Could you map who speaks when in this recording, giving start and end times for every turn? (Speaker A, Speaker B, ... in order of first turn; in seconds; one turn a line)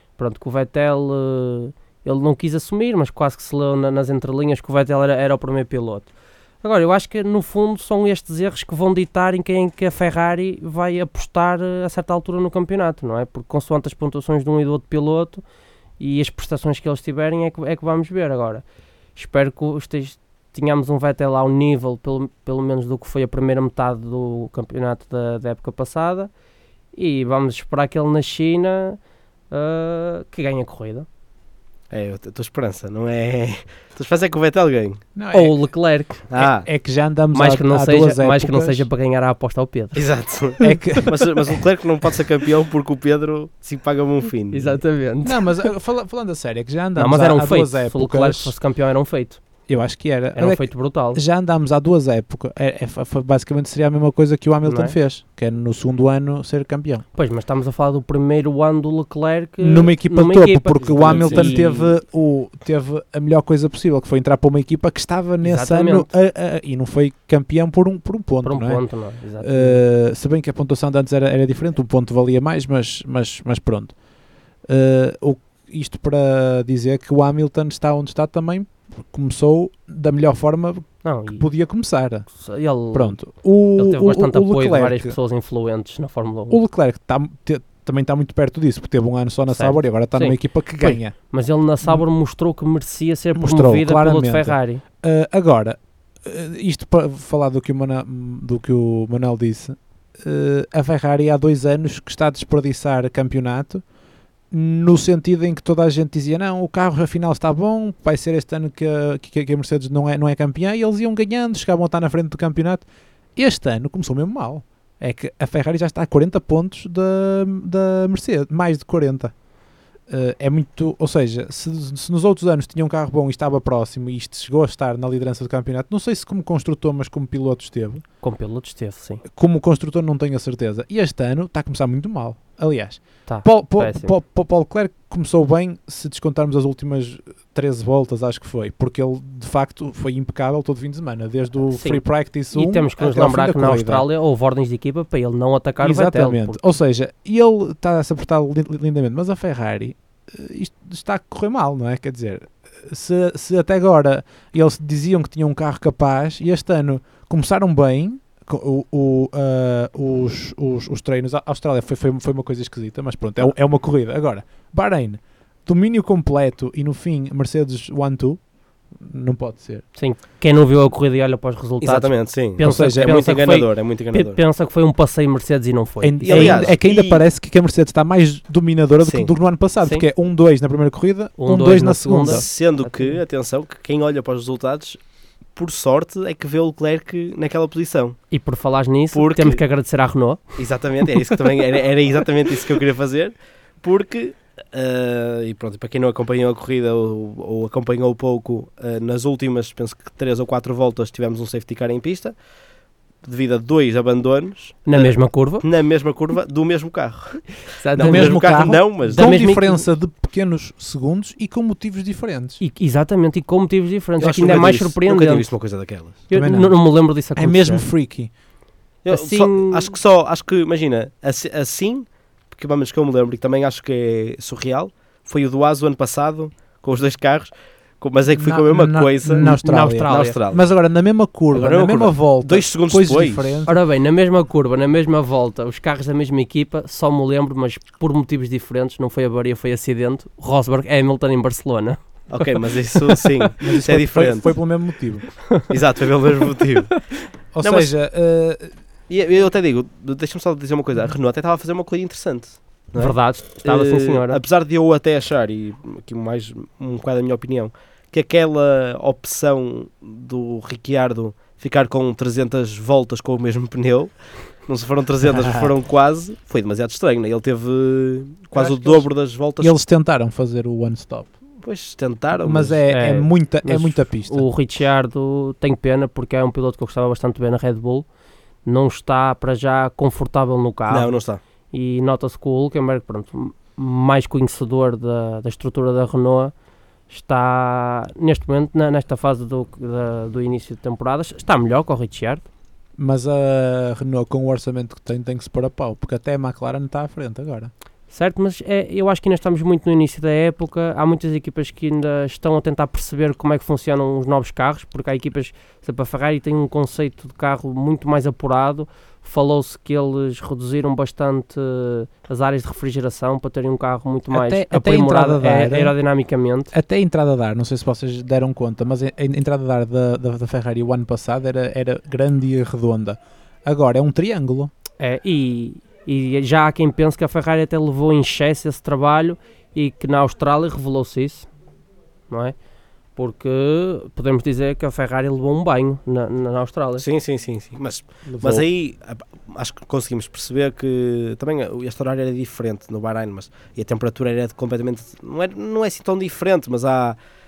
Speaker A: 0.2-6.1
Speaker A: 6.6-15.4
Speaker A: 16.0-18.6
Speaker A: 19.1-26.3
Speaker A: 26.9-29.0
Speaker A: 29.5-31.1
Speaker B: 31.9-35.0
Speaker C: 35.2-35.6
Speaker A: 35.3-36.3
Speaker B: 36.3-36.7
Speaker C: 36.4-38.9
Speaker A: 37.3-40.1
Speaker B: 39.9-44.8
Speaker A: 40.6-41.0
Speaker C: 40.6-41.2
Speaker A: 44.5-45.5
Speaker C: 45.2-48.5
Speaker A: 47.0-49.4
Speaker C: 49.7-57.0
Speaker A: 50.4-51.2
Speaker A: 54.6-55.0
Speaker A: 57.1-62.0
Speaker C: 59.6-68.8
Speaker B: 60.9-61.6
Speaker A: 65.4-66.1
Speaker A: 68.4-69.8
Speaker C: 69.4-74.0
Speaker C: 74.7-82.3
Speaker A: 81.0-81.4
Speaker A: 82.3-83.2
Speaker C: 82.9-85.2
Speaker A: 83.8-86.6
Speaker C: 86.5-91.2
Speaker A: 89.5-94.8
Speaker C: 93.3-103.8
Speaker C: 104.5-112.8
Speaker C: 113.4-119.3
Speaker C: 120.1-128.0
Speaker A: 128.2-129.2
Speaker C: 129.3-144.1
Speaker A: 133.3-134.1
Speaker A: 141.7-146.6
Speaker C: 145.8-168.4
Speaker C: 169.0-169.8
Speaker A: 170.0-176.7
Speaker B: 171.8-174.4
Speaker C: 172.6-173.3
Speaker C: 176.0-182.5
Speaker B: 176.2-177.2
Speaker B: 179.0-179.3
Speaker A: 181.4-183.2
Speaker B: 182.2-185.0
Speaker B: 185.6-188.2
Speaker A: 188.3-190.5
Speaker B: 189.1-189.6
Speaker B: 190.6-202.3
Speaker B: 203.2-209.4
Speaker A: 204.9-205.7
Speaker A: 207.7-208.4
Speaker C: 208.0-212.6
Speaker A: 209.1-209.8
Speaker A: 212.6-215.5
Speaker B: 214.2-216.2
Speaker A: 216.3-217.9
Speaker C: 216.3-218.3
Speaker B: 219.0-230.6
Speaker A: 219.1-219.9
Speaker C: 228.3-233.8
Speaker A: 229.3-230.4
Speaker B: 231.5-233.6
Speaker A: 233.7-243.4
Speaker B: 242.3-244.6
Speaker C: 243.6-245.3
Speaker B: 245.7-247.1
Speaker C: 247.5-248.7
Speaker B: 247.6-247.9
Speaker B: 249.1-264.1
Speaker A: 253.0-254.4
Speaker B: 264.7-269.8
Speaker C: 265.4-265.7
Speaker C: 268.6-269.1
Speaker C: 269.6-271.3
Speaker B: 271.6-272.8
Speaker C: 272.4-274.5
Speaker A: 272.9-278.1
Speaker A: 278.7-281.1
Speaker B: 280.9-281.4
Speaker A: 281.7-286.5
Speaker A: 287.1-292.4
Speaker C: 293.0-297.7
Speaker A: 298.1-316.7
Speaker C: 314.3-315.9
Speaker C: 316.7-324.7
Speaker A: 325.0-331.5
Speaker A: 332.3-332.6
Speaker A: 333.1-337.1
Speaker B: 337.0-347.2
Speaker C: 338.3-338.6